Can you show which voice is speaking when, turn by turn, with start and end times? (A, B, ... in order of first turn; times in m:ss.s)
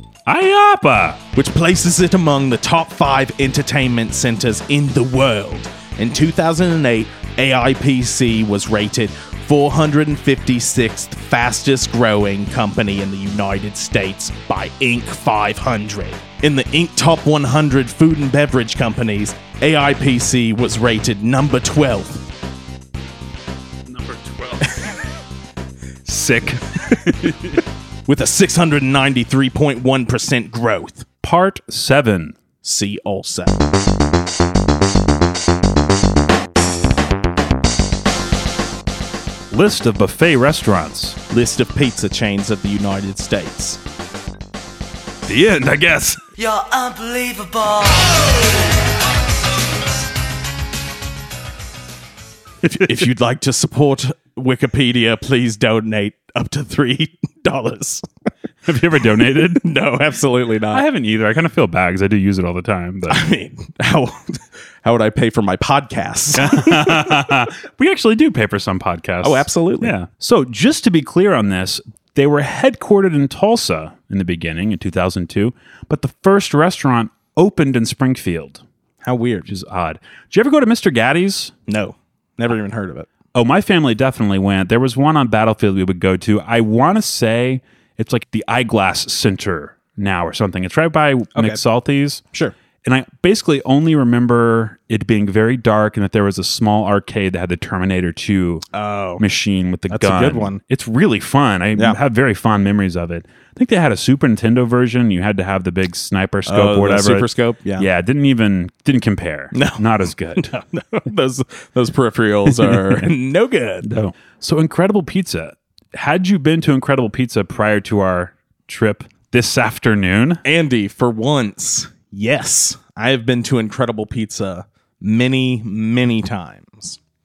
0:00.2-0:01.2 A
0:01.3-0:22.2 B
0:23.9-0:24.9 A
0:26.0-0:27.6 A
0:28.1-0:31.0 B
0:31.2-0:32.4 A
0:32.6-0:33.6 B
0:39.5-0:41.2 A
0:41.3-0:43.8 B
0:45.2-0:46.2 A
0:46.4-0:48.6 C
0:52.6-0:58.0 B
0:58.6-0:59.6 A
0:59.4-1:00.8 B
1:00.7-1:03.2 A
1:03.1-1:07.1 B
1:06.3-1:18.6 A
1:09.2-1:09.9 B
1:19.0-1:19.5 B
1:19.5-1:21.5 A
1:21.7-1:23.1 B
1:23.3-1:32.2 A
1:32.8-1:38.6 A
1:38.7-1:39.2 B
1:39.2-1:50.5 A
1:39.9-1:40.6 B
1:46.4-1:47.9 B
1:49.5-1:49.8 B
1:50.4-1:53.9 B
1:52.4-1:53.1 A
1:53.8-2:00.4 A
2:00.4-2:07.0 B